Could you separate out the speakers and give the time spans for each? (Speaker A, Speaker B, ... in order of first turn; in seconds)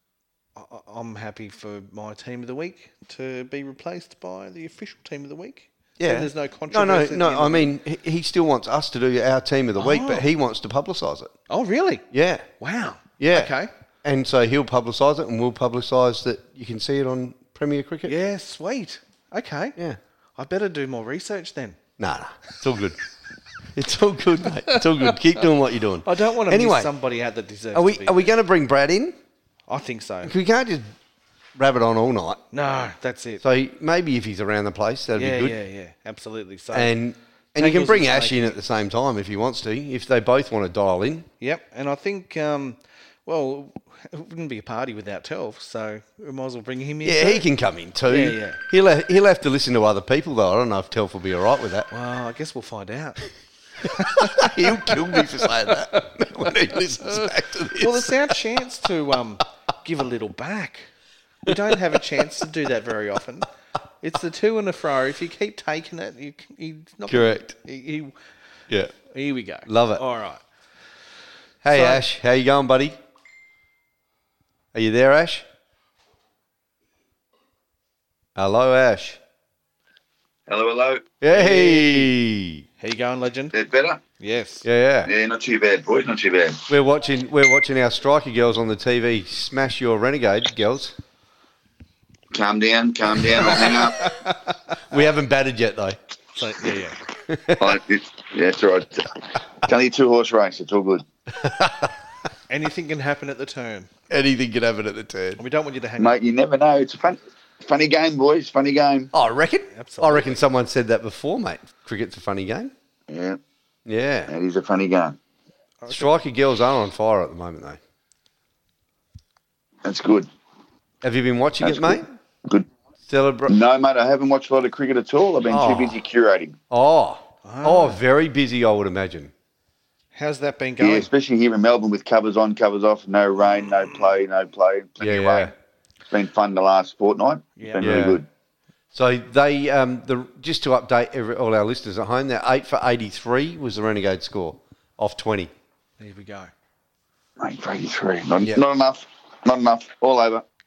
Speaker A: 0.6-7.7, 9.8-10.3, 11.5-12.1, 12.6-13.7, 18.1-19.8, 20.4-21.8, 24.7-25.2, 26.0-28.3, 29.7-30.3, 32.5-33.4, 35.1-37.0, 37.6-38.6, 41.4-47.5, 48.1-48.6, 51.9-53.3, 53.8-56.1, 56.7-60.9, 61.5-63.5, 64.0-68.2, 69.1-70.4, 71.7-72.0, 81.3-82.1, 82.8-83.5, 84.2-84.7, 93.4-94.7, 96.3-97.0, 102.5-103.9, 105.4-106.2, 109.7-110.4, 115.8-116.2, 127.4-128.0, 130.2-131.1, 137.6-138.1, 146.0-146.5
Speaker B: 6.0-11.3, 12.1-12.4, 13.2-18.1, 22.0-23.0, 23.7-26.9, 27.7-29.2, 30.2-30.9, 31.6-32.4, 33.4-35.6, 36.7-41.3, 47.0-51.9, 53.8-58.3, 67.1-67.5, 69.7-70.0, 71.6-73.0, 74.7-75.5, 78.4-79.2, 81.2-82.7, 84.6-85.1, 86.7-91.0, 94.9-96.0, 97.3-97.8, 101.3-101.9, 104.1-105.4, 109.1-112.7, 113.9-114.3, 115.9-117.8, 121.0-122.1, 123.1-123.5, 125.5-126.0, 126.7-129.3, 135.0-135.5, 137.8-138.2, 138.9-145.5
Speaker C: 80.5-81.1, 83.5-84.0, 85.0-86.7, 92.3-94.1, 97.6-101.0, 106.0-109.1, 113.1-113.4, 114.3-115.2, 119.8-120.3, 121.6-122.7, 123.5-126.6, 130.8-135.5, 136.1-138.3, 147.4-150.4